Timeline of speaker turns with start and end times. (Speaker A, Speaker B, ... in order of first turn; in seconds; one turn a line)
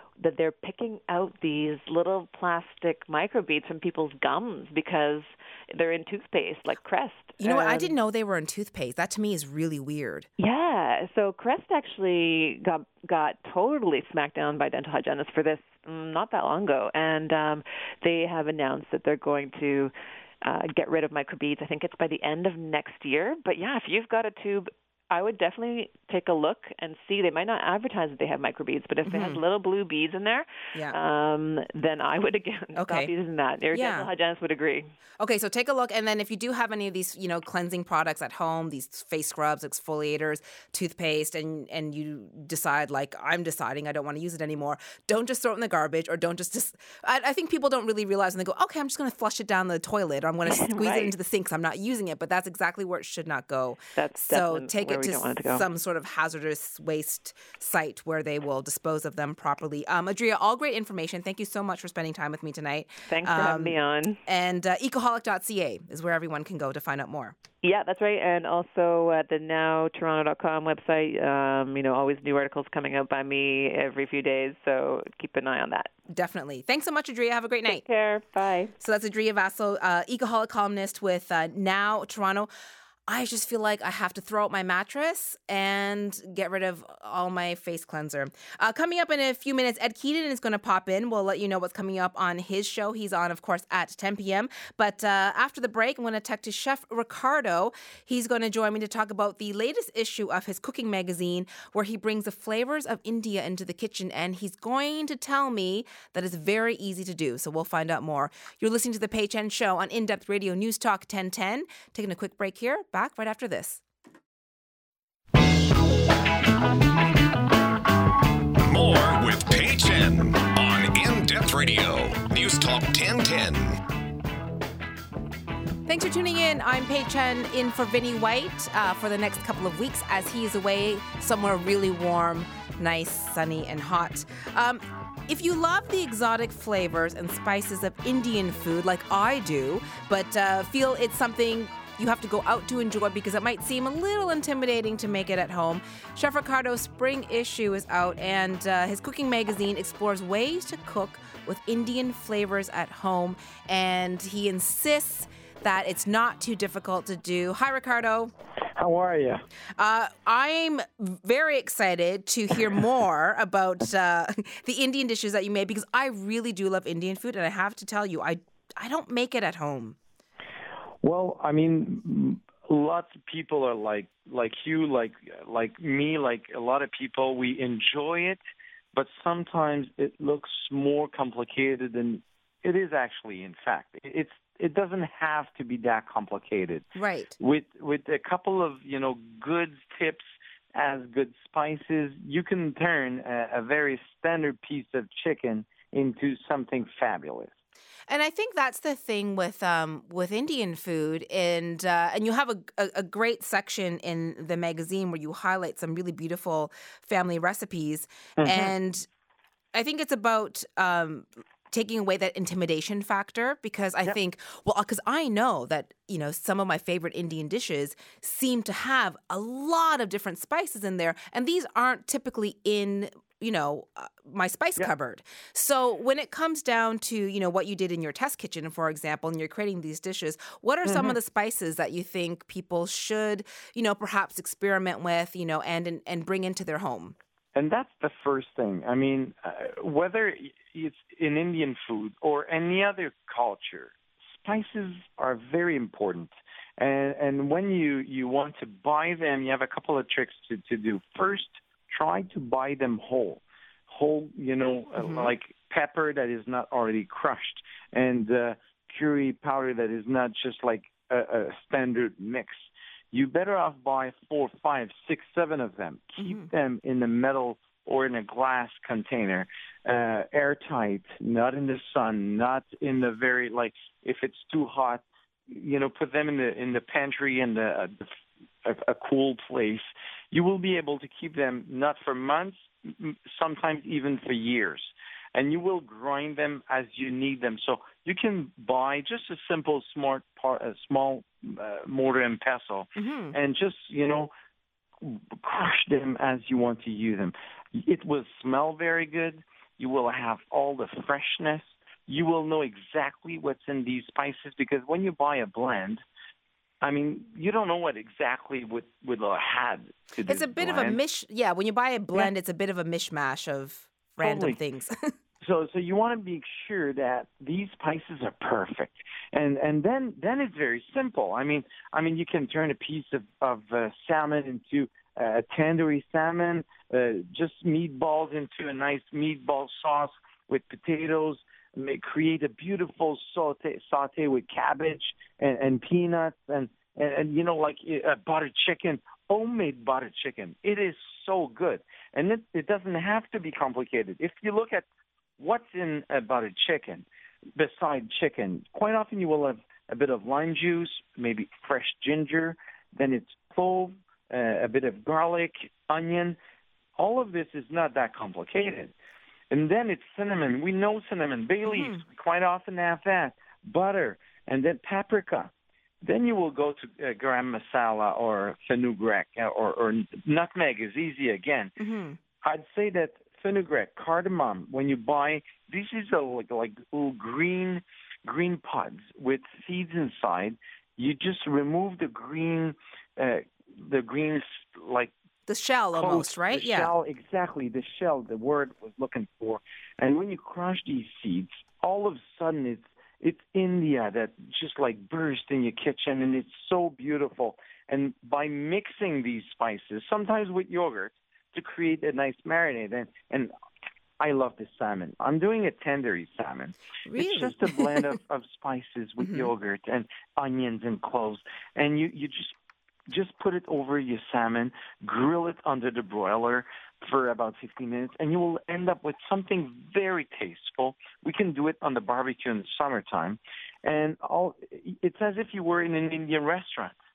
Speaker A: 0.2-7.9
Speaker B: 7.4-10.3
Speaker A: 10.4-34.9
Speaker B: 29.0-29.4
Speaker B: 32.7-33.1
Speaker B: 33.7-34.1
Speaker B: 35.2-67.3
Speaker A: 50.5-51.1
Speaker A: 54.0-55.6
Speaker A: 63.1-64.2
Speaker A: 67.6-75.9
Speaker B: 76.1-77.8
Speaker A: 77.7-78.7
Speaker B: 78.8-82.5
Speaker B: 83.1-113.8
Speaker C: 118.6-123.8
Speaker B: 125.8-158.3
Speaker D: 158.8-159.4
Speaker B: 159.8-169.9
Speaker D: 171.0-178.4
Speaker D: 178.9-186.8
Speaker B: 186.9-187.4
Speaker D: 187.4-197.5
Speaker B: 198.1-209.1
Speaker D: 208.4-208.7
Speaker B: 209.7-237.2
Speaker D: 230.8-231.1
Speaker D: 237.5-278.1
Speaker B: 255.0-255.3
Speaker B: 266.2-266.5
Speaker D: 278.6-294.3
Speaker B: 293.0-293.4
Speaker D: 295.0-306.0
Speaker D: 306.8-311.0
Speaker B: 310.3-315.1
Speaker D: 314.2-314.6
Speaker D: 315.4-344.8
Speaker D: 345.4-347.0
Speaker D: 347.6-356.4
Speaker D: 356.9-358.9
Speaker D: 359.5-365.5
Speaker B: 361.7-362.0
Speaker D: 366.0-371.7
Speaker B: 371.8-372.2
Speaker D: 372.4-385.1
Speaker B: 385.5-386.9
Speaker D: 385.9-403.5
Speaker D: 404.2-412.5
Speaker B: 407.1-407.8
Speaker B: 409.2-409.5
Speaker D: 413.1-426.9